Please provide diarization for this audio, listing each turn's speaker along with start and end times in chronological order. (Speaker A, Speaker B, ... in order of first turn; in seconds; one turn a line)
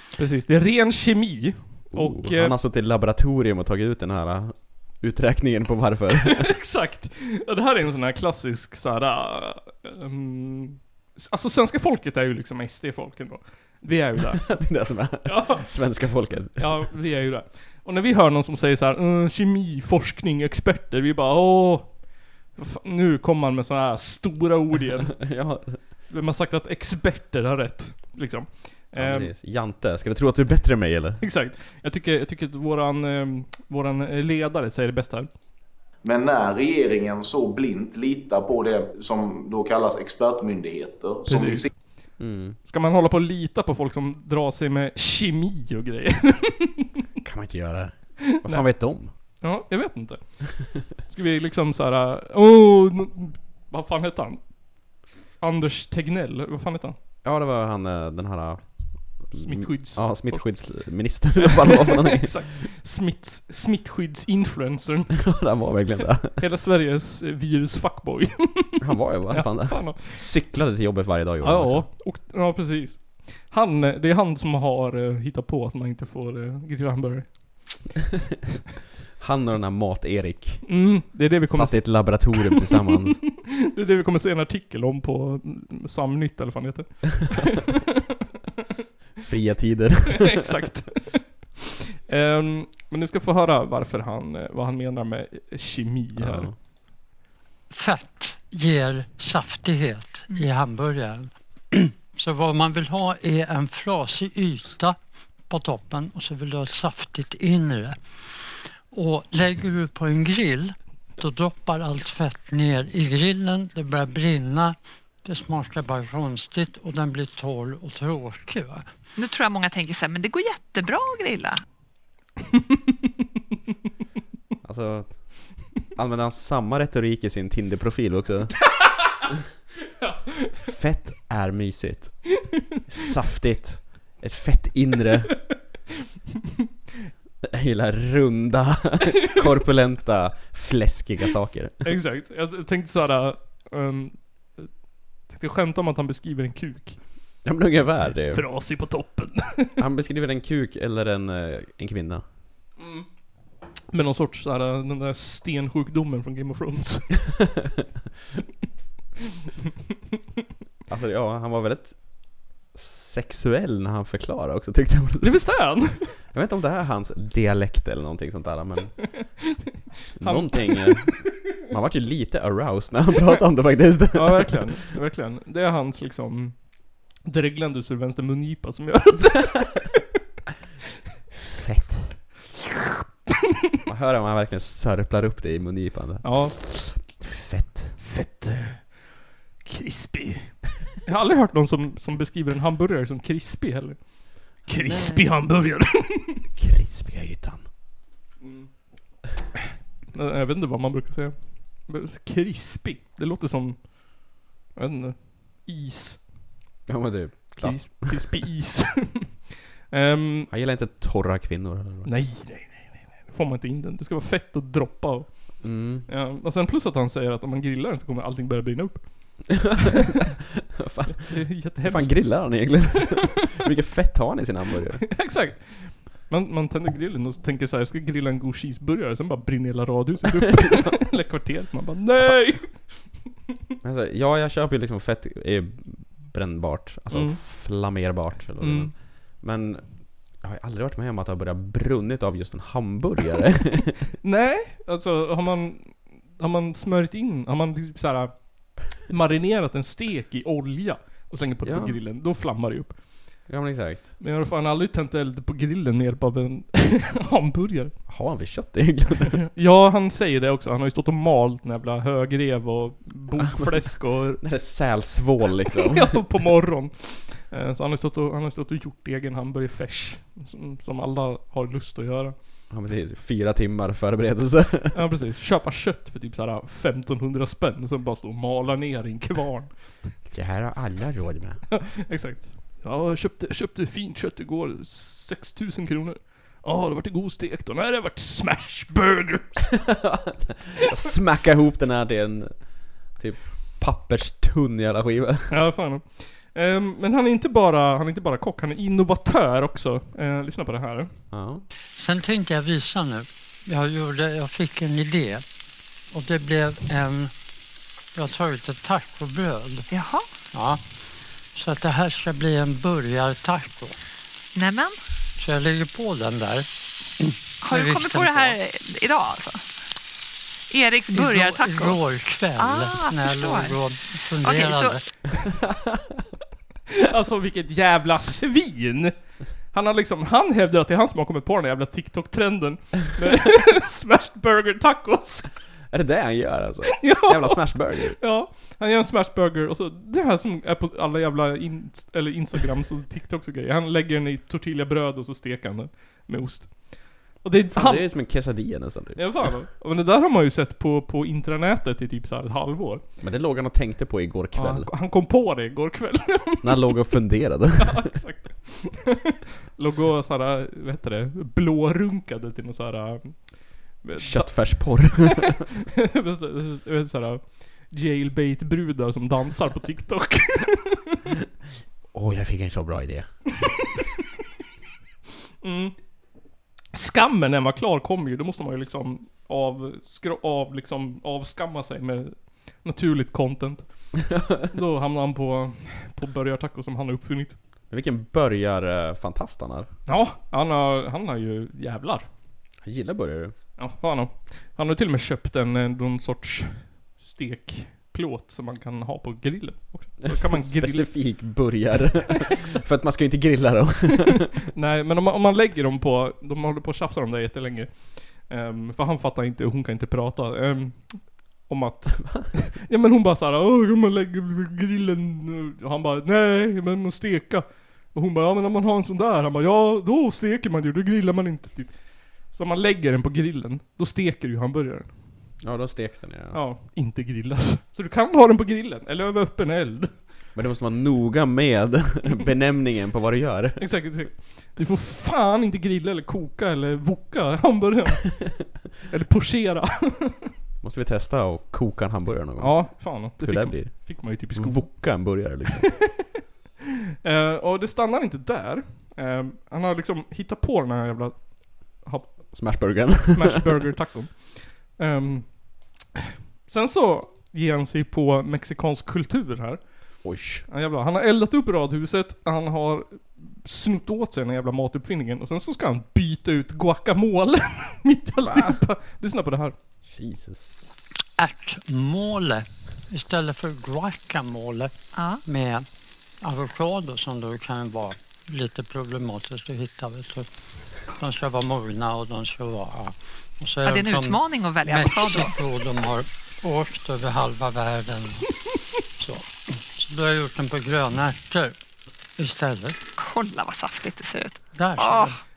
Speaker A: 0.2-2.5
Speaker B: 1.9-6.5
Speaker A: 6.2-14.6
Speaker B: 14.3-16.9
Speaker A: 15.2-15.7
Speaker A: 16.6-25.2
Speaker B: 25.1-25.8
Speaker A: 26.1-29.3
Speaker B: 28.9-31.2
Speaker A: 31.2-35.3
Speaker C: 36.0-41.7
Speaker A: 41.3-41.8
Speaker B: 42.2-42.6
Speaker A: 42.6-47.0
Speaker B: 47.2-49.1
Speaker A: 48.2-48.8
Speaker A: 49.4-54.4
Speaker A: 55.4-57.0
Speaker B: 57.2-62.4
Speaker A: 59.3-60.4
Speaker A: 61.4-65.2
Speaker B: 65.2-66.4
Speaker A: 66.4-70.3
Speaker B: 68.8-71.9
Speaker A: 71.4-77.9
Speaker B: 79.2-80.8
Speaker A: 80.7-87.9
Speaker B: 81.5-83.2
Speaker B: 89.2-90.5
Speaker A: 90.1-96.5
Speaker B: 96.2-96.5
Speaker D: 97.7-105.0
Speaker D: 105.5-108.0
Speaker D: 108.9-118.9
Speaker E: 119.2-121.6
Speaker B: 124.6-125.2
Speaker B: 125.9-128.5
Speaker A: 130.0-130.5
Speaker B: 130.6-132.3
Speaker B: 132.9-135.4
Speaker B: 137.4-141.8
Speaker A: 141.8-144.7
Speaker A: 145.3-147.0
Speaker B: 147.4-148.4
Speaker A: 148.3-149.8
Speaker B: 149.8-152.2
Speaker A: 152.8-153.1
Speaker A: 153.9-157.2
Speaker B: 160.9-162.2
Speaker B: 162.7-169.0
Speaker A: 165.2-166.2
Speaker B: 170.2-174.8
Speaker A: 170.2-171.1
Speaker A: 174.1-180.0
Speaker B: 181.3-182.2
Speaker B: 183.9-188.0
Speaker A: 186.2-186.6
Speaker A: 188.0-189.0
Speaker A: 189.6-196.4
Speaker B: 194.8-195.2
Speaker B: 196.6-197.7
Speaker A: 198.4-198.7
Speaker A: 200.1-203.9
Speaker A: 204.8-206.2
Speaker B: 206.9-208.3
Speaker A: 207.6-210.5
Speaker B: 210.5-212.1
Speaker A: 212.0-219.6
Speaker B: 215.6-216.1
Speaker B: 219.6-220.2
Speaker B: 220.8-225.1
Speaker A: 221.1-222.8
Speaker A: 225.1-233.1
Speaker B: 230.4-230.9
Speaker B: 233.8-244.1
Speaker A: 237.1-237.4
Speaker A: 238.6-238.9
Speaker A: 244.2-248.4
Speaker A: 248.9-253.0
Speaker B: 251.6-252.0
Speaker B: 253.5-254.1
Speaker A: 254.2-257.9
Speaker B: 258.1-259.4
Speaker A: 259.4-264.4
Speaker B: 263.4-263.8
Speaker B: 264.4-266.2
Speaker A: 265.7-272.4
Speaker B: 272.7-275.0
Speaker A: 274.9-280.0
Speaker B: 280.3-281.6
Speaker A: 281.7-289.7
Speaker B: 289.9-295.5
Speaker A: 295.5-301.1
Speaker B: 301.3-301.6
Speaker D: 302.0-305.4
Speaker D: 306.1-307.3
Speaker D: 308.1-309.9
Speaker E: 309.9-310.3
Speaker D: 310.5-310.8
Speaker D: 311.5-314.0
Speaker E: 314.6-315.0
Speaker D: 315.4-318.6
Speaker E: 317.6-319.6
Speaker E: 320.7-322.0
Speaker D: 321.1-325.1
Speaker E: 322.6-325.0
Speaker A: 326.9-329.1
Speaker A: 329.7-335.5
Speaker B: 335.9-338.2
Speaker A: 337.0-348.4
Speaker B: 347.7-349.6
Speaker A: 349.2-353.1
Speaker B: 353.2-354.9
Speaker A: 354.5-357.0
Speaker B: 356.6-358.1
Speaker A: 357.8-371.2
Speaker B: 364.2-365.6
Speaker B: 372.1-373.3
Speaker A: 375.6-375.9
Speaker A: 376.9-383.9
Speaker A: 384.7-387.6
Speaker B: 387.9-389.9
Speaker A: 390.1-392.3
Speaker B: 392.8-393.6
Speaker A: 393.8-401.1
Speaker B: 400.2-404.5
Speaker A: 404.7-425.2
Speaker B: 412.2-412.5
Speaker B: 425.6-426.6
Speaker A: 426.5-430.2
Speaker B: 430.6-433.9
Speaker A: 433.8-438.5
Speaker A: 439.1-440.5
Speaker B: 440.8-445.9
Speaker A: 442.6-445.7
Speaker A: 447.2-452.8
Speaker B: 452.5-453.7
Speaker A: 453.3-455.6
Speaker A: 456.7-469.8
Speaker B: 460.2-460.7
Speaker B: 468.4-468.8
Speaker B: 470.1-470.6
Speaker D: 471.4-474.9
Speaker E: 475.1-475.4
Speaker D: 475.4-475.9
Speaker D: 476.4-480.5
Speaker D: 481.1-488.5
Speaker E: 483.8-485.6
Speaker D: 489.2-491.8
Speaker D: 492.4-493.0
Speaker E: 493.2-495.4
Speaker D: 494.7-495.4